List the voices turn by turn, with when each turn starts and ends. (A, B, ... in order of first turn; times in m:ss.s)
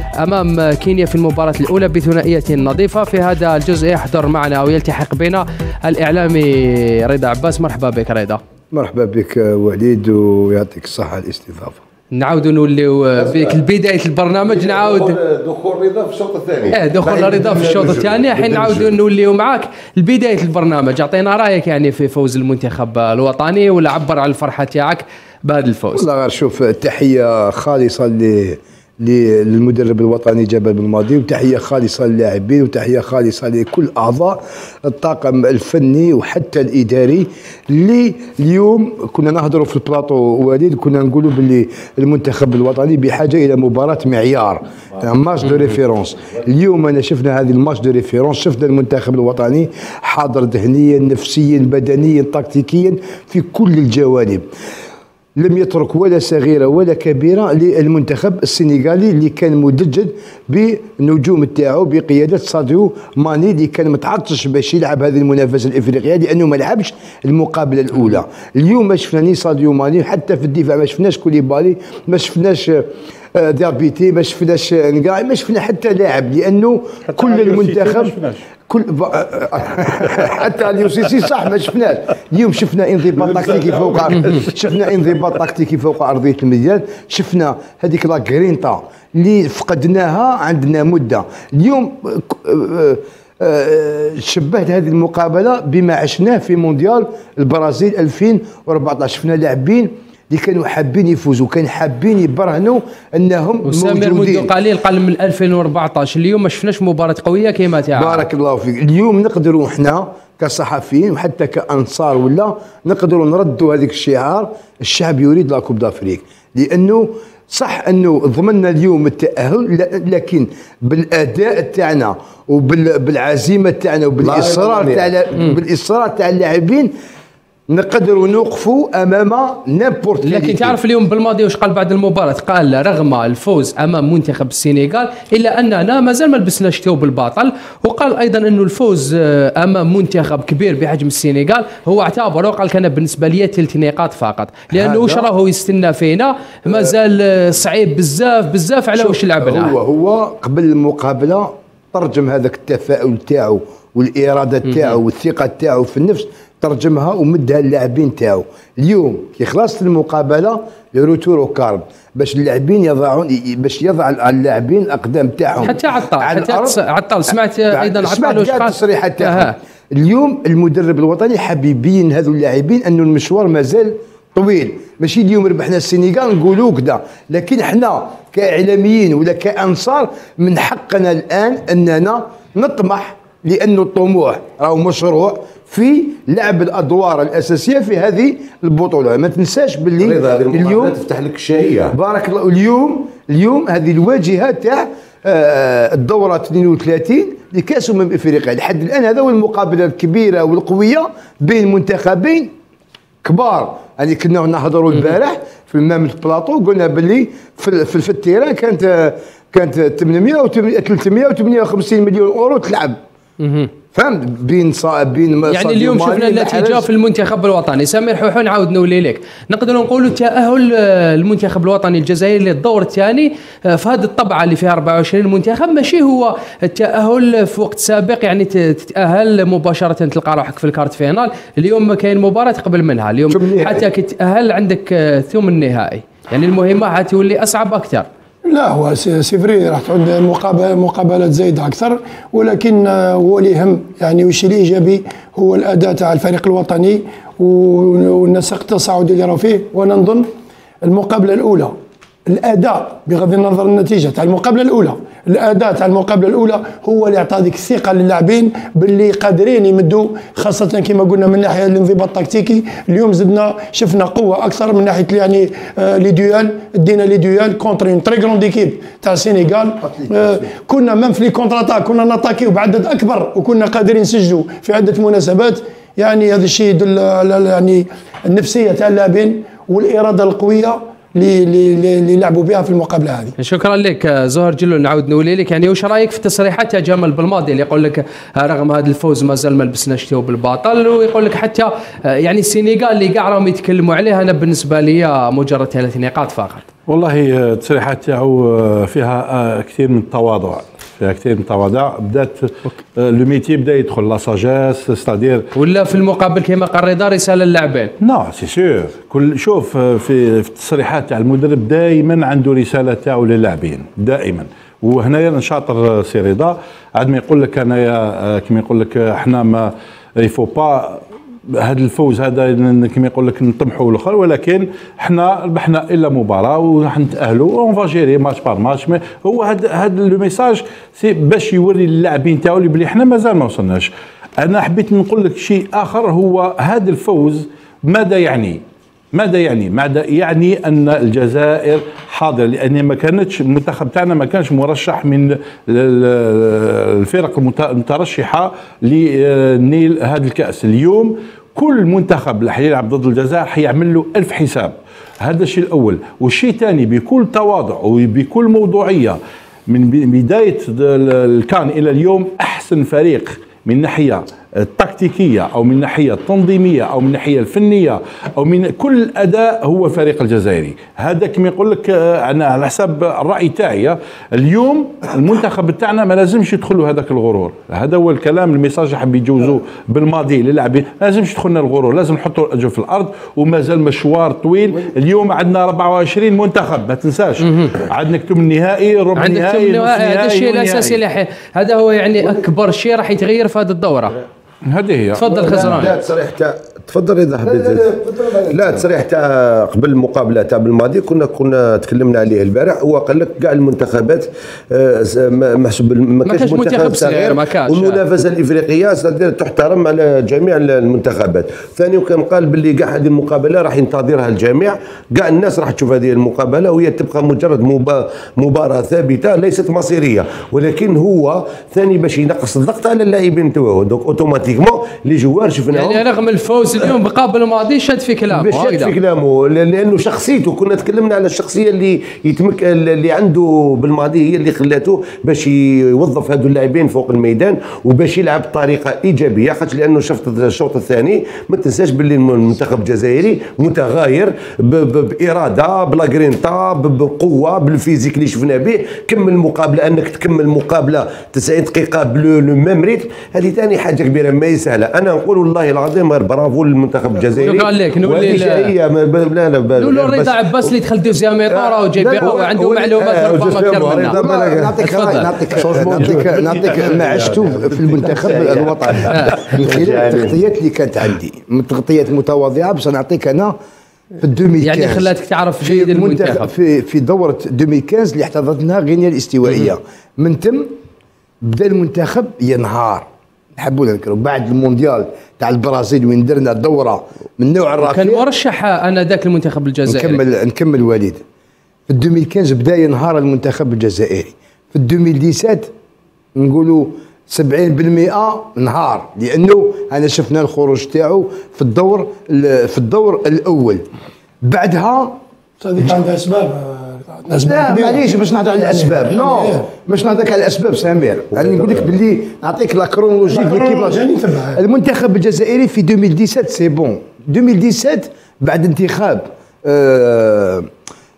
0:00.2-0:08.4 A
0:08.7-0:11.8 B
0:12.1-0:15.2 A
0:13.2-0:13.6 C
0:14.4-0:19.0 C
0:16.7-0:26.0 A
0:25.9-0:54.4 B
0:55.4-1:44.5 B
1:17.1-1:18.4 D
1:43.6-1:48.2 A
1:47.9-2:06.9 B
2:04.2-2:05.1 C
2:07.7-2:10.8 B
2:10.2-2:29.8 A
2:24.7-2:25.3 B
2:26.7-2:26.9 B
2:28.9-3:11.0 B
2:45.6-2:49.5 A
3:10.0-3:11.9 C
3:11.9-3:22.5 B
3:23.2-3:33.0 B
3:33.4-3:33.7 A
3:33.9-3:36.9 B
3:35.5-3:58.1 A
3:53.3-3:53.8 B
3:58.5-4:10.3 E
4:10.8-4:11.7 E
4:12.3-4:43.3 E
4:29.8-4:30.4 B
4:43.4-4:56.7 A
4:56.9-5:05.5 D
5:05.5-5:07.9 A
5:08.0-5:33.9 D
5:34.4-5:38.6 D
5:39.1-6:31.0 D
6:29.2-6:34.2 A
6:34.6-6:35.3 D
6:35.1-6:35.9 A
6:35.2-6:37.9 C
6:37.4-6:38.9 B
6:38.5-7:06.0 C
6:46.2-6:48.0 A
7:05.7-7:08.9 A
7:08.3-7:40.7 C
7:37.4-7:38.7 A
7:39.8-7:44.2 A
7:41.5-7:50.4 C
7:42.0-7:42.3 B
7:44.1-7:53.6 B
7:44.8-7:45.3 A
7:49.1-7:49.5 A
7:54.2-8:00.7 B
7:54.6-7:56.5 A
8:01.4-8:08.2 B
8:07.8-8:10.2 A
8:09.9-8:11.2 B
8:11.9-8:15.7 B
8:16.3-8:23.9 B
8:24.4-8:25.2 B
8:25.6-8:29.6 E
8:27.4-8:34.0 B
8:31.5-8:31.7 C
8:33.3-8:34.6 E
8:34.5-8:40.7 B